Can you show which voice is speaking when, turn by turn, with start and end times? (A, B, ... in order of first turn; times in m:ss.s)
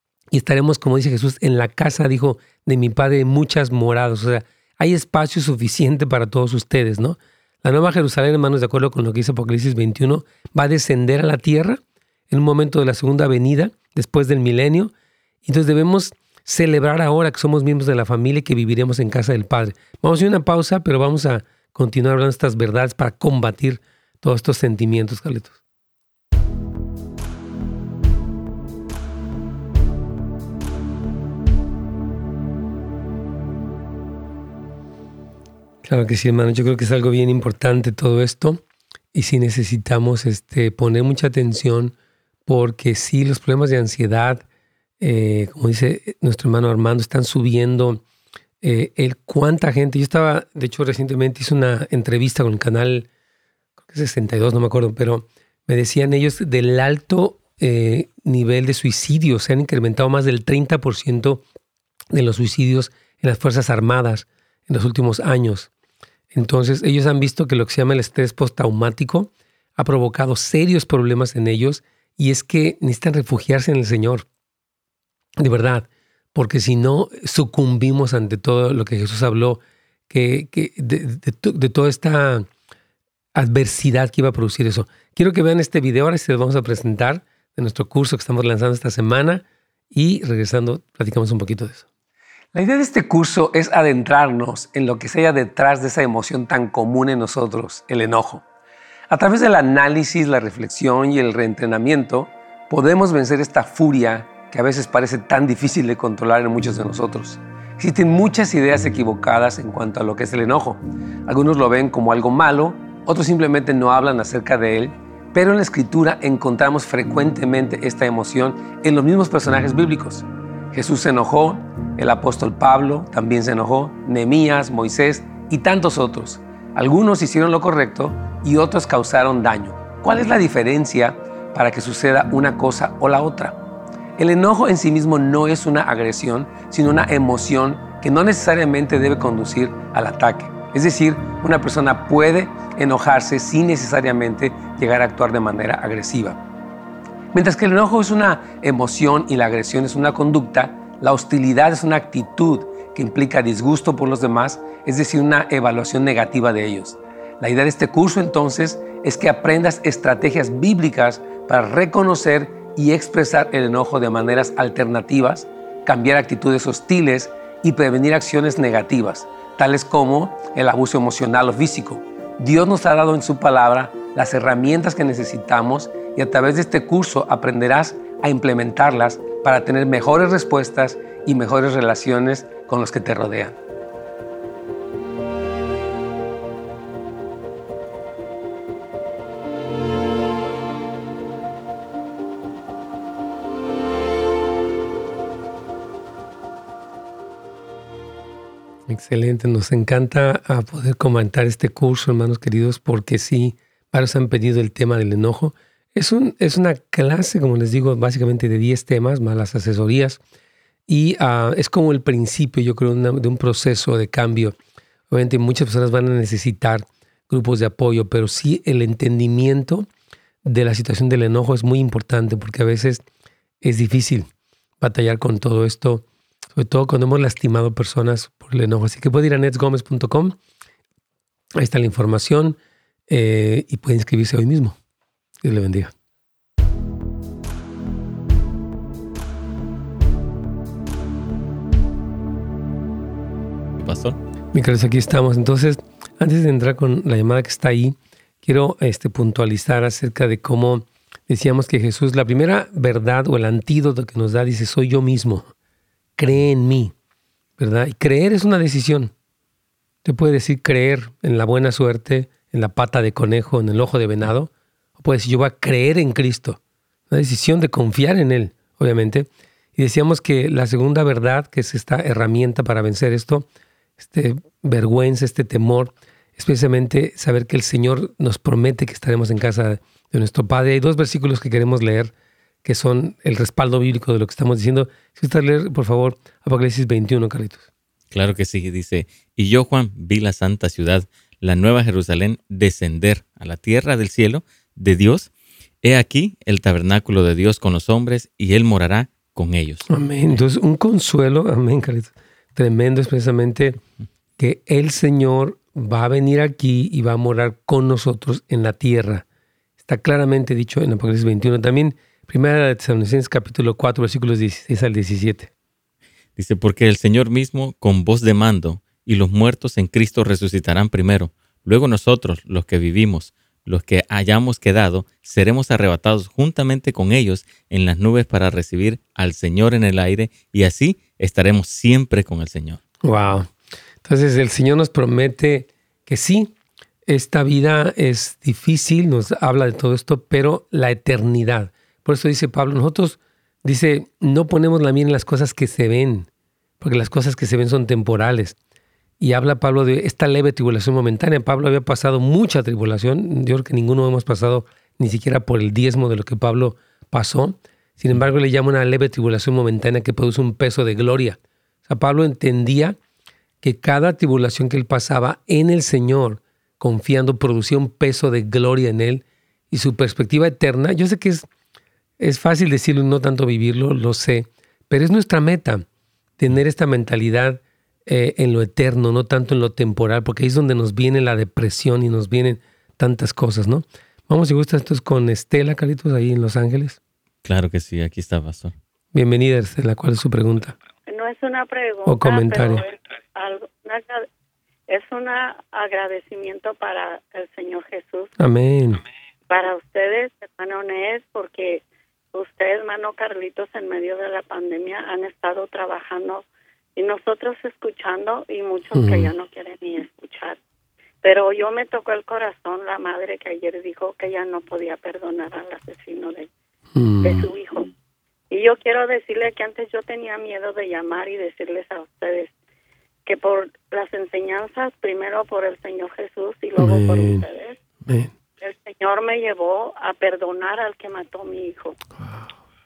0:00.3-0:14.9 A
0:15.4-0:25.6 A
0:35.8-0:38.6 A
0:39.1-0:41.9 A
0:42.5-0:44.4 A
0:45.0-0:48.0 A
0:48.6-0:53.1 A
0:53.8-1:01.4 A
1:02.1-1:05.7 A
1:06.3-1:14.3 A
1:15.4-1:22.5 A
1:23.4-1:31.9 A
1:32.5-1:38.4 A
1:39.1-2:13.6 A
2:14.2-2:26.4 A
2:27.3-3:03.6 A
3:18.9-3:30.2 A
3:30.9-3:34.6 A
3:35.1-3:39.9 A
3:40.4-3:43.0 A
3:43.6-3:44.3 A
3:44.8-3:50.4 A
3:51.6-3:54.8 A
3:55.4-3:55.9 A
4:03.8-4:04.2 B
4:04.5-4:15.5 A
4:16.2-4:16.9 A
4:17.6-4:19.1 A
4:20.0-4:33.5 A
4:34.0-4:42.1 A
4:42.6-4:47.6 A
4:48.1-4:55.3 B
4:55.8-4:59.9 B
4:59.9-5:03.8 A
5:04.4-5:09.2 A
5:09.8-5:15.5 A
5:16.4-5:32.8 B
5:33.0-5:33.5 A
5:34.0-5:36.5 A
5:37.1-5:46.3 A
5:46.8-5:48.6 A
5:49.2-6:03.0 A
6:03.6-6:11.5 A
6:12.2-6:15.8 A
6:16.4-6:27.0 A
6:27.4-6:28.8 B
6:29.1-6:30.8 A
6:31.1-6:34.3 C
6:32.0-6:32.8 A
6:34.9-6:38.3 C
6:38.4-6:39.0 A
6:39.5-6:46.4 C
6:47.0-6:50.6 C
6:48.9-6:49.3 A
6:51.2-6:56.5 C
6:57.0-6:57.5 A
6:57.2-6:57.9 C
6:58.5-7:02.5 C
7:03.3-7:07.8 C
7:06.8-7:07.4 A
7:08.6-7:12.0 C